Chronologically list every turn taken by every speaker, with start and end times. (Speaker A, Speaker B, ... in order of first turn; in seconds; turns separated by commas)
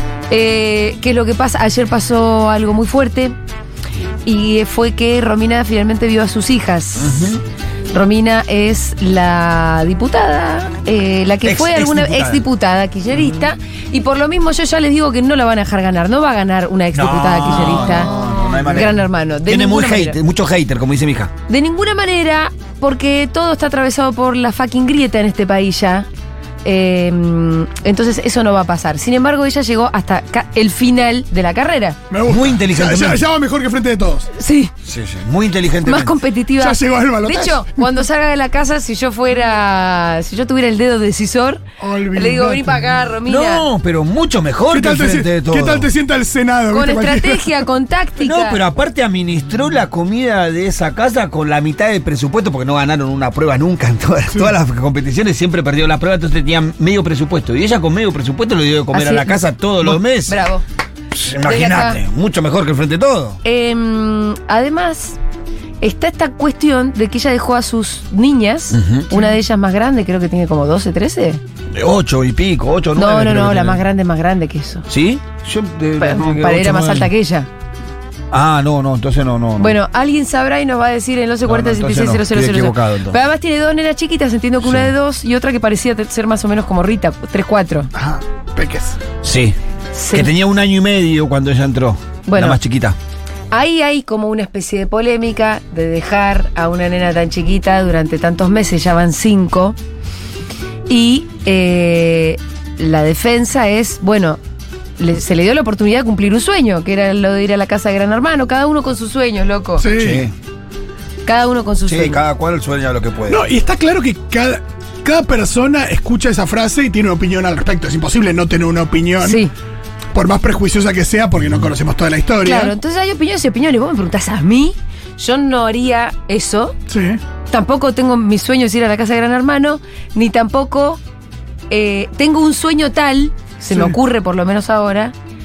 Speaker A: 0.3-3.4, Speaker A: 4.2-7.3, Speaker B: 7.0-7.4, Speaker A: 7.9-18.1, Speaker B: 11.4-12.4, Speaker B: 16.9-21.3, Speaker A: 18.7-20.2, Speaker A: 21.5-26.1, Speaker A: 26.6-32.0, Speaker C: 32.1-34.3, Speaker B: 32.3-33.2, Speaker A: 34.4-34.7, Speaker B: 34.8-36.2, Speaker A: 35.8-43.6, Speaker C: 36.6-37.9, Speaker C: 41.8-42.9, Speaker B: 43.3-45.9, Speaker C: 44.7-47.5, Speaker A: 46.7-48.6, Speaker B: 48.2-60.5, Speaker A: 58.9-60.6, Speaker B: 61.1-63.4, Speaker A: 61.4-62.0, Speaker A: 63.4-65.2, Speaker A: 65.8-71.4, Speaker B: 68.7-69.1, Speaker B: 71.7-73.8, Speaker A: 73.0-74.9, Speaker B: 74.9-77.1, Speaker A: 76.0-77.5, Speaker B: 78.3-79.8, Speaker A: 79.6-87.9, Speaker B: 81.5-83.2, Speaker B: 84.6-84.9, Speaker C: 88.0-89.0, Speaker B: 89.2-89.6, Speaker A: 89.9-90.3, Speaker B: 90.1-93.0, Speaker A: 92.3-92.6, Speaker A: 93.5-99.8, Speaker A: 100.9-104.4, Speaker A: 105.0-109.9, Speaker C: 109.8-110.3, Speaker B: 110.0-110.3, Speaker A: 111.2-112.2, Speaker B: 111.9-113.5, Speaker C: 113.3-119.4, Speaker A: 119.2-119.5, Speaker C: 120.1-122.8, Speaker A: 122.4-126.8, Speaker C: 126.9-127.2, Speaker A: 127.5-131.0, Speaker A: 131.7-135.1, Speaker C: 133.7-134.0